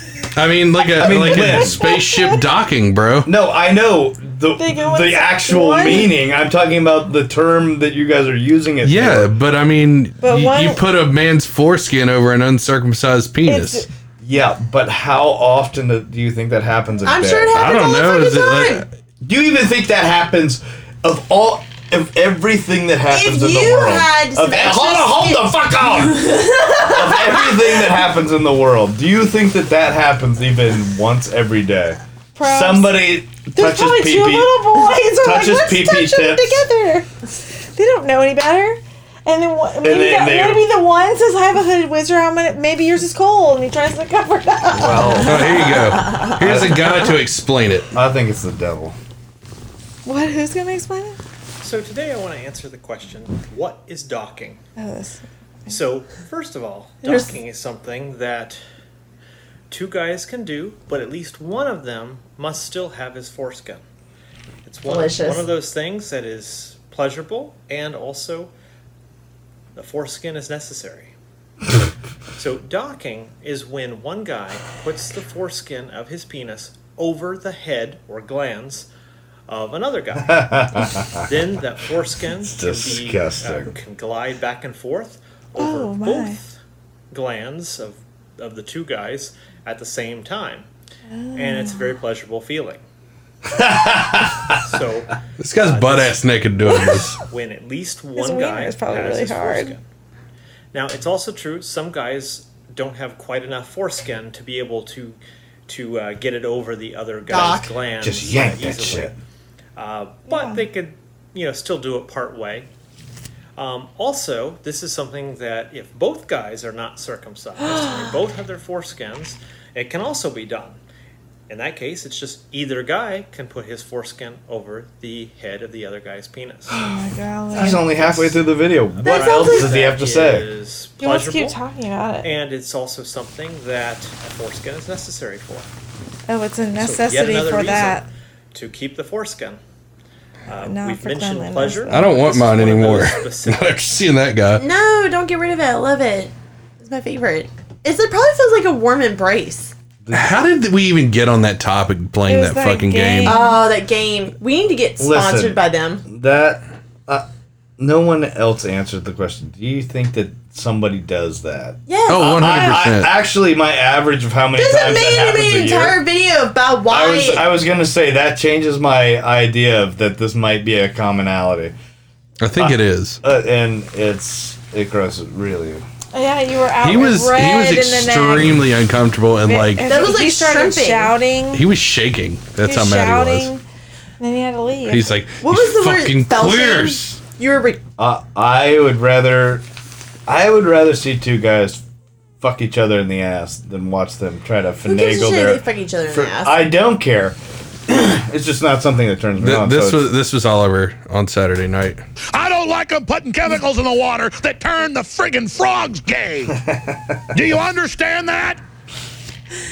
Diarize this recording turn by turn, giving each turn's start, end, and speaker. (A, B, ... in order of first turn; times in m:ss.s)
0:00.3-0:03.3 A
0:01.0-0:01.9 B
0:01.8-0:02.3 C
0:03.2-0:09.3 B
0:04.6-0:06.1 C
0:08.8-0:13.8 A
0:10.2-0:10.8 C
0:13.4-0:13.9 C
0:14.2-0:17.6 B
0:17.0-0:18.8 D
0:17.5-0:18.9 A
0:19.2-0:36.6 B
0:23.1-0:28.0 D
0:32.4-0:45.3 C
0:39.8-0:40.8 B
0:44.7-0:45.7 B
0:45.2-0:47.9 A
0:46.4-0:47.1 B
0:47.9-0:49.0 B
0:50.0-0:51.2 C
0:51.6-0:54.6 E
0:54.8-0:55.7 C
0:55.7-0:58.6 E
0:57.0-0:57.3 D
0:59.7-1:03.8 E
1:04.6-1:08.5 E
1:04.8-1:05.5 D
1:09.7-1:11.1 E
1:12.4-1:18.9 E
1:19.5-1:26.6 E
1:20.3-1:21.2 B
1:22.4-1:23.7 B
1:25.6-1:26.4 C
1:27.1-1:30.7 E
1:31.1-1:31.9 C
1:31.3-1:32.8 E
1:33.5-1:34.6 B
1:34.5-1:39.8 E
1:35.4-1:37.2 A
1:38.2-1:39.8 C
1:40.7-1:49.2 E
1:47.3-1:47.7 D
1:48.0-1:49.2 B
1:49.8-1:52.7 E
1:50.3-1:50.6 C
1:53.6-2:00.8 E
2:01.5-2:06.8 E
2:06.7-2:08.4 C
2:07.5-2:10.5 B
2:09.0-2:11.6 E
2:09.0-2:09.7 D
2:11.0-2:12.3 C
2:12.2-2:15.7 E
2:16.3-2:18.1 C
2:16.8-2:19.6 E
2:20.5-2:24.0 E
2:20.5-2:22.4 C
2:21.9-2:24.6 A
2:24.6-2:29.7 D
2:30.0-2:30.4 B
2:30.1-2:33.4 A
2:32.3-2:33.6 C
2:33.2-2:36.0 D
2:35.0-2:37.2 B
2:37.8-2:46.0 B
2:41.9-2:42.6 D
2:42.1-2:43.1 A
2:44.6-2:47.4 D
2:46.9-2:51.7 B
2:52.4-2:53.2 A
2:52.6-2:55.8 B
2:56.1-2:58.6 C
2:56.8-2:59.9 A
2:59.4-3:01.6 C
2:59.8-3:01.2 D
3:01.5-3:03.5 A
3:02.6-3:03.6 C
3:04.2-3:05.1 C
3:04.9-3:07.2 A
3:05.4-3:07.8 D
3:08.0-3:09.6 B
3:10.3-3:11.8 B
3:12.4-3:20.1 B
3:14.8-3:16.6 D
3:19.4-3:22.0 A
3:22.3-3:26.6 F
3:26.6-3:27.2 B
3:27.3-3:28.6 F